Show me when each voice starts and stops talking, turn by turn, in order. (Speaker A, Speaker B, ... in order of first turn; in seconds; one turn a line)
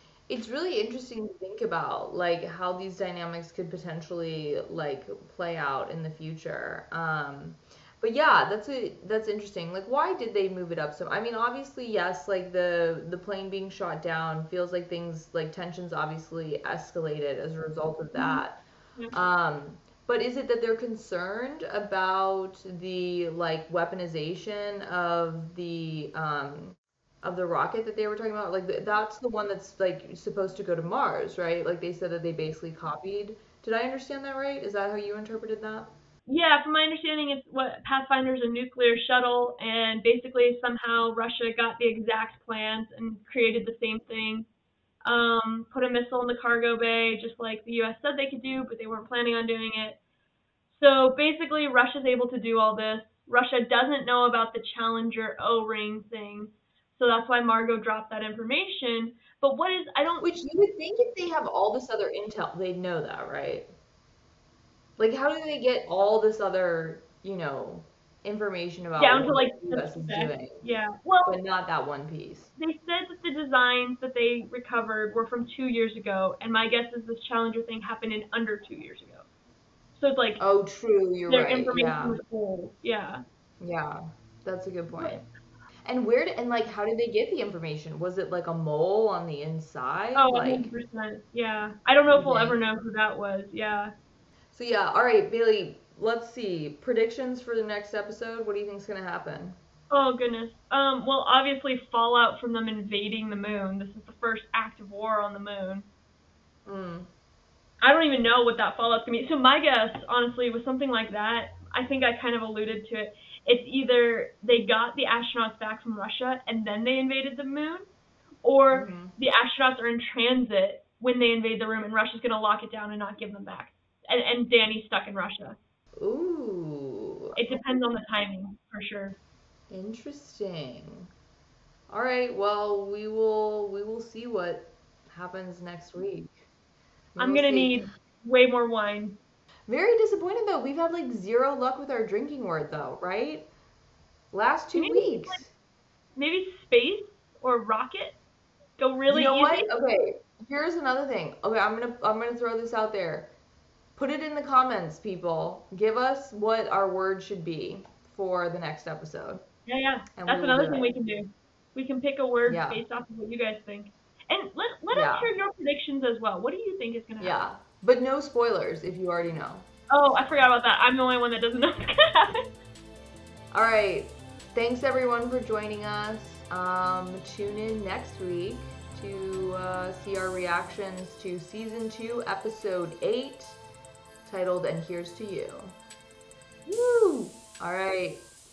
Speaker A: 0.3-18.6
Speaker B: 18.1-18.4
Speaker A: 19.1-35.9
Speaker B: 36.3-44.5
Speaker B: 45.0-50.0
Speaker B: 50.7-60.3
Speaker A: 60.2-63.7
Speaker A: 65.0-70.7
Speaker B: 69.0-71.4
Speaker A: 71.3-72.5
Speaker B: 72.6-79.2
Speaker B: 80.0-80.4
Speaker A: 80.4-82.2
Speaker B: 81.3-83.2
Speaker A: 83.6-85.2
Speaker A: 85.8-90.7
Speaker B: 90.2-93.9
Speaker A: 92.1-92.6
Speaker A: 94.5-99.6
Speaker B: 99.9-105.9
Speaker A: 106.7-107.1
Speaker B: 107.8-117.9
Speaker B: 118.4-125.6
Speaker A: 118.7-119.2
Speaker A: 126.0-127.4
Speaker B: 127.3-129.2
Speaker A: 129.7-131.1
Speaker A: 131.9-136.5
Speaker A: 137.2-137.8
Speaker B: 137.2-139.2
Speaker A: 139.7-143.5
Speaker A: 144.3-145.5
Speaker B: 144.8-145.4
Speaker B: 146.2-148.2
Speaker B: 148.8-149.7
Speaker A: 149.1-153.3
Speaker A: 154.0-159.4
Speaker B: 159.7-167.4
Speaker A: 160.2-160.9
Speaker A: 162.5-162.8
Speaker A: 164.9-165.3
Speaker A: 167.2-169.7
Speaker B: 169.9-172.4
Speaker A: 173.5-183.6
Speaker A: 184.2-185.8
Speaker A: 186.7-188.2